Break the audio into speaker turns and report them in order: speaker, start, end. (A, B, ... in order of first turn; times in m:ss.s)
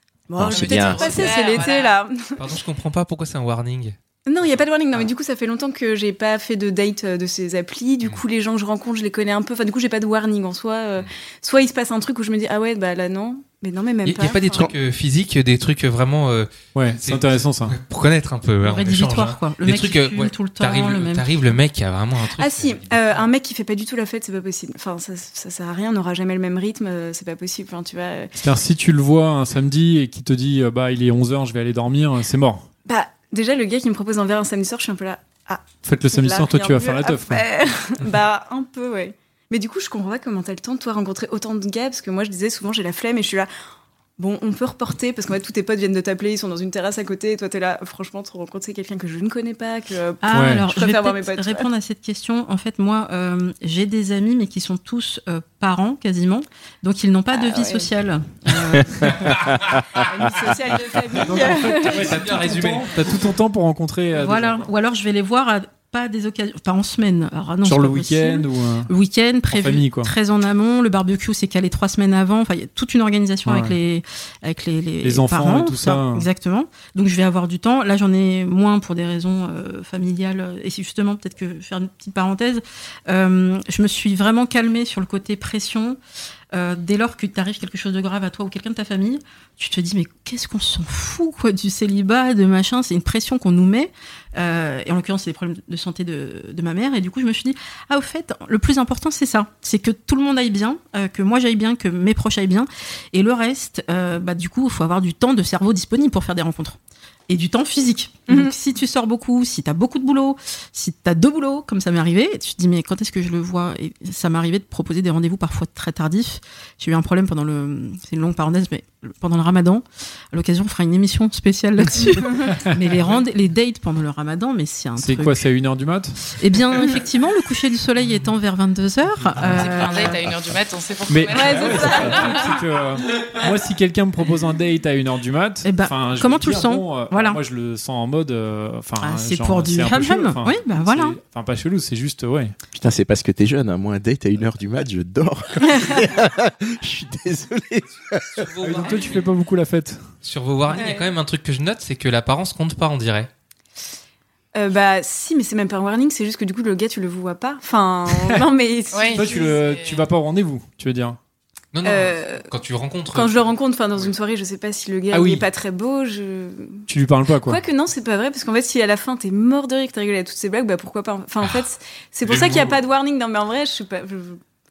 0:00.3-0:02.4 A
0:00.4-0:01.2 B
0:00.4-0:02.0 C
0:02.4-0:04.6 D
0:04.2-0:14.7 A
0:14.0-0:23.3 D
0:14.2-0:14.7 B
0:16.7-0:17.8 E
0:18.6-0:21.3 F
0:22.4-0:28.3 A
0:28.4-0:32.7 E
0:32.9-0:43.5 A
0:35.8-0:37.4 E
0:44.2-0:51.7 A
0:50.2-0:59.4 F
0:50.3-0:50.7 E
0:57.3-0:57.9 A
0:59.9-1:02.5 A
1:01.1-1:04.7 E
1:01.7-1:03.0 D
1:04.1-1:26.0 F
1:07.6-1:08.9 E
1:09.5-1:10.1 E
1:13.4-1:13.8 E
1:15.0-1:16.3 E
1:26.5-1:46.8 F
1:47.3-2:05.4 F
1:48.3-1:48.5 A
2:02.3-2:02.8 E
2:05.0-2:06.2 E
2:06.3-2:10.2 F
2:09.3-2:09.7 E
2:09.5-2:12.5 C
2:11.1-2:22.5 E
2:11.3-2:12.5 A
2:15.6-2:17.4 F
2:19.0-2:21.2 F
2:22.7-2:28.5 B
2:28.4-2:29.2 D
2:28.6-2:30.1 E
2:30.2-2:33.3 D
2:30.7-2:31.1 A
2:34.5-2:39.5 A
2:38.1-2:38.4 E
2:38.9-2:40.1 C
2:39.1-2:41.2 E
2:41.7-2:43.5 D
2:41.8-2:42.5 A
2:43.1-2:46.9 A
2:45.1-2:45.4 E
2:46.9-2:47.6 E
2:47.4-2:54.4 A
2:52.2-2:52.8 D